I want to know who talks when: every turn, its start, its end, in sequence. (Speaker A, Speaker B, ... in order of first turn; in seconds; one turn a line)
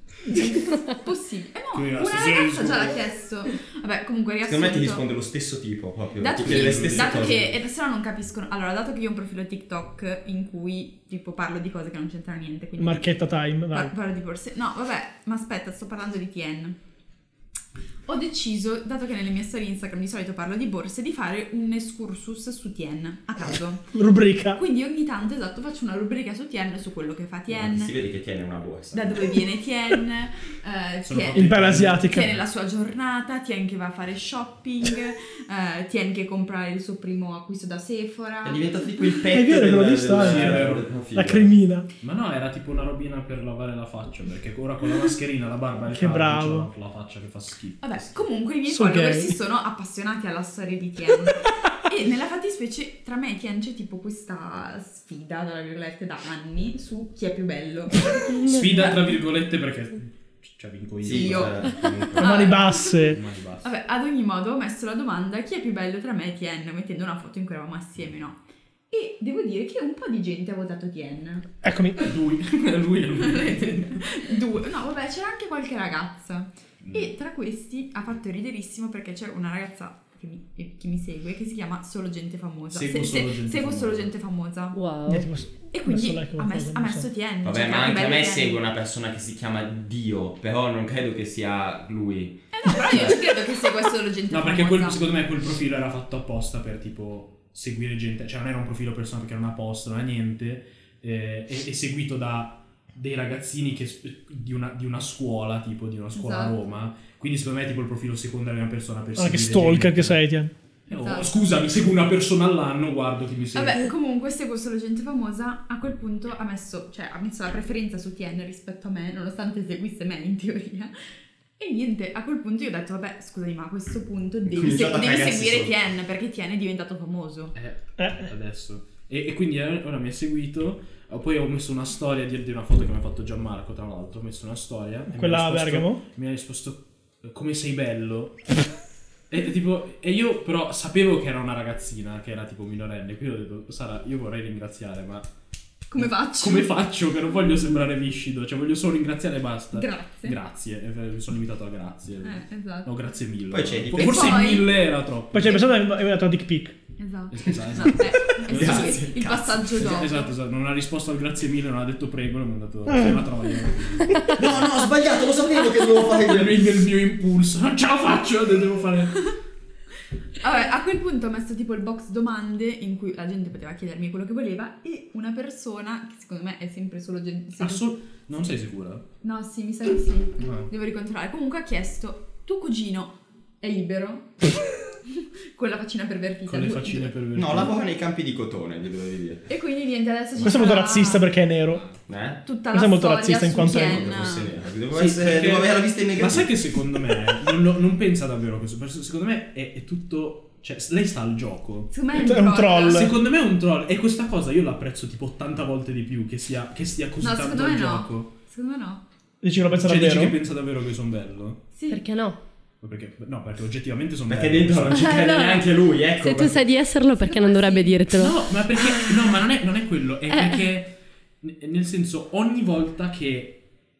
Speaker A: 0.3-5.1
Speaker B: 1.7-2.9
Speaker C: 4.4-7.5
Speaker A: 6.2-13.1
Speaker B: 6.4-7.5
Speaker D: 12.8-13.9
Speaker A: 13.7-16.8
Speaker A: 18.1-23.9
Speaker D: 23.9-24.6
Speaker A: 24.6-27.9
Speaker C: 27.5-29.4
Speaker A: 28.9-38.7
Speaker B: 31.1-32.4
Speaker D: 31.3-32.3
Speaker C: 38.4-41.5
Speaker D: 39.3-41.9
Speaker B: 40.1-40.9
Speaker B: 42.0-48.1
Speaker D: 45.9-46.7
Speaker A: 47.8-58.9
Speaker D: 48.7-49.3
Speaker E: 58.3-58.9
Speaker B: 58.4-61.7
Speaker C: 61.0-62.4
Speaker A: 61.1-71.5
Speaker D: 62.1-63.2
Speaker B: 63.0-63.7
Speaker D: 71.6-72.0
Speaker B: 72.0-74.0
Speaker A: 73.2-84.8
Speaker B: 76.8-77.1
Speaker B: 82.7-84.1
Speaker E: 84.7-85.3
Speaker D: 85.1-87.0
Speaker A: 85.7-88.6
Speaker C: 87.4-93.2
Speaker A: 92.5-95.0
Speaker B: 94.3-110.2
Speaker A: 106.1-106.6
Speaker D: 109.2-110.5
Speaker B: 110.9-113.9
Speaker A: 110.9-111.3
Speaker A: 113.5-120.9
Speaker A: 121.6-127.5
Speaker C: 124.5-125.7
Speaker B: 127.5-138.5
Speaker D: 128.0-128.3
Speaker D: 135.1-136.0
Speaker B: 139.3-145.3
Speaker A: 145.9-146.7
Speaker B: 145.9-155.7
Speaker A: 149.7-150.4
Speaker A: 152.2-152.9
Speaker C: 153.5-154.6
Speaker A: 154.0-154.8
Speaker D: 155.3-156.8
Speaker A: 157.0-160.3
Speaker B: 157.3-159.0
Speaker C: 158.4-159.8
Speaker B: 159.8-164.4
Speaker C: 164.3-166.7
Speaker B: 166.1-169.3
Speaker A: 170.4-177.8
Speaker B: 177.6-179.0
Speaker A: 179.2-184.5
Speaker B: 180.4-180.7
Speaker A: 185.1-187.1
Speaker B: 186.5-187.7
Speaker C: 187.3-189.5
Speaker A: 189.5-191.3
Speaker D: 190.4-191.8
Speaker C: 192.1-192.4
Speaker A: 192.4-194.5
Speaker D: 192.7-194.0
Speaker C: 193.7-196.5
Speaker B: 194.9-201.9
Speaker A: 201.9-203.1
Speaker D: 202.1-203.1
Speaker B: 202.8-208.3
Speaker A: 207.2-209.0
Speaker D: 209.4-210.4
Speaker B: 209.7-211.6
Speaker A: 211.7-212.0
Speaker E: 211.9-212.4
Speaker B: 212.8-215.2
Speaker C: 214.3-216.6
Speaker E: 214.9-218.4
Speaker A: 217.1-218.0
Speaker B: 218.1-223.6
Speaker E: 220.3-220.6